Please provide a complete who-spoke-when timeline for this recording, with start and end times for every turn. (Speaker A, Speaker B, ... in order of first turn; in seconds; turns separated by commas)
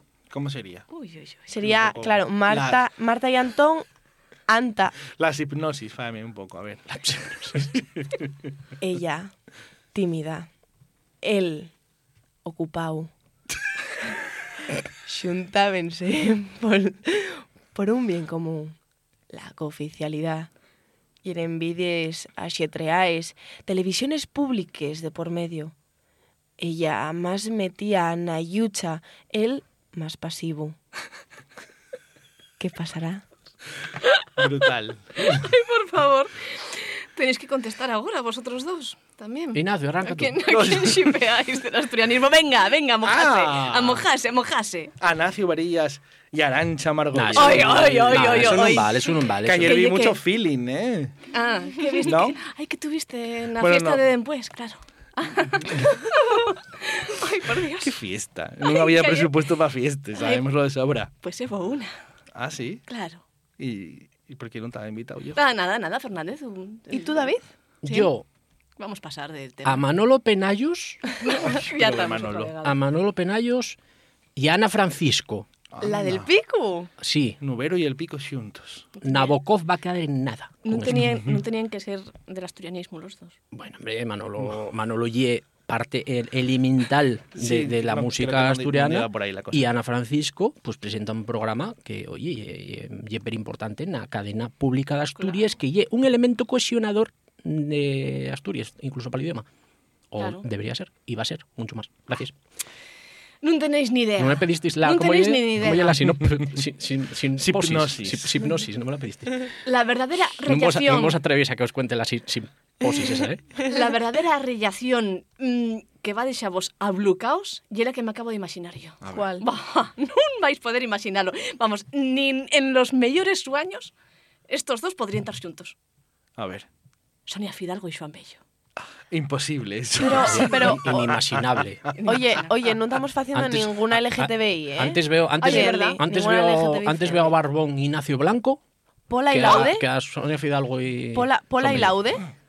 Speaker A: 0.3-0.8, Speaker B: 0.9-1.5, Speaker C: 1.5-3.8, Speaker A: 1.6-2.8, Speaker C: 4.5-5.0, Speaker A: 5.2-7.0, Speaker D: 6.9-7.8, Speaker C: 8.8-9.3, Speaker C: 9.9-10.5, Speaker C: 11.2-11.7, Speaker C: 12.4-13.1, Speaker C: 15.1-18.8, Speaker C: 19.3-20.5, Speaker C: 21.2-25.7, Speaker C: 26.6-30.8, Speaker C: 32.6-33.2, Speaker A: 34.4-35.4, Speaker B: 35.2-44.9, Speaker D: 39.5-40.5, Speaker A: 40.5-41.2, Speaker A: 43.0-44.0, Speaker A: 45.0-48.9, Speaker D: 47.1-49.8, Speaker B: 47.4-49.0, Speaker A: 49.4-51.1, Speaker B: 49.6-50.2, Speaker B: 51.3-57.9, Speaker A: 52.0-52.4, Speaker A: 53.6-54.0, Speaker A: 57.8-61.1, Speaker B: 58.6-59.3, Speaker B: 60.2-60.4, Speaker B: 61.2-61.9, Speaker A: 62.3-62.8, Speaker B: 62.9-63.2, Speaker A: 63.6-65.4, Speaker B: 65.3-67.3, Speaker C: 66.9-67.4, Speaker D: 67.8-68.2, Speaker B: 67.8-68.1, Speaker B: 68.8-69.8, Speaker D: 69.6-71.0, Speaker B: 71.2-72.8, Speaker A: 71.4-72.5, Speaker D: 72.6-73.8, Speaker D: 74.3-75.5, Speaker A: 75.7-76.3, Speaker B: 75.8-76.8, Speaker C: 75.8-76.9, Speaker D: 77.0-77.4, Speaker A: 77.4-78.9, Speaker D: 79.0-81.2, Speaker B: 79.0-79.3, Speaker B: 80.6-83.3, Speaker D: 83.5-99.5, Speaker A: 87.3-89.7, Speaker B: 95.2-95.5, Speaker D: 100.1-102.3, Speaker B: 100.2-100.4, Speaker B: 103.4-106.0, Speaker D: 104.2-109.5, Speaker A: 107.4-108.4, Speaker B: 109.6-111.2, Speaker D: 110.4-113.4, Speaker B: 113.6-123.9, Speaker A: 119.0-119.3, Speaker C: 119.1-119.5, Speaker B: 124.5-125.8, Speaker A: 126.4-126.7, Speaker B: 127.3-128.4, Speaker A: 129.1-131.0, Speaker D: 130.0-131.9, Speaker C: 130.0-131.2, Speaker B: 131.9-132.5, Speaker C: 132.0-137.3, Speaker D: 133.3-138.6, Speaker B: 135.4-136.0, Speaker C: 139.1-139.8, Speaker D: 139.3-142.0, Speaker C: 141.1-142.2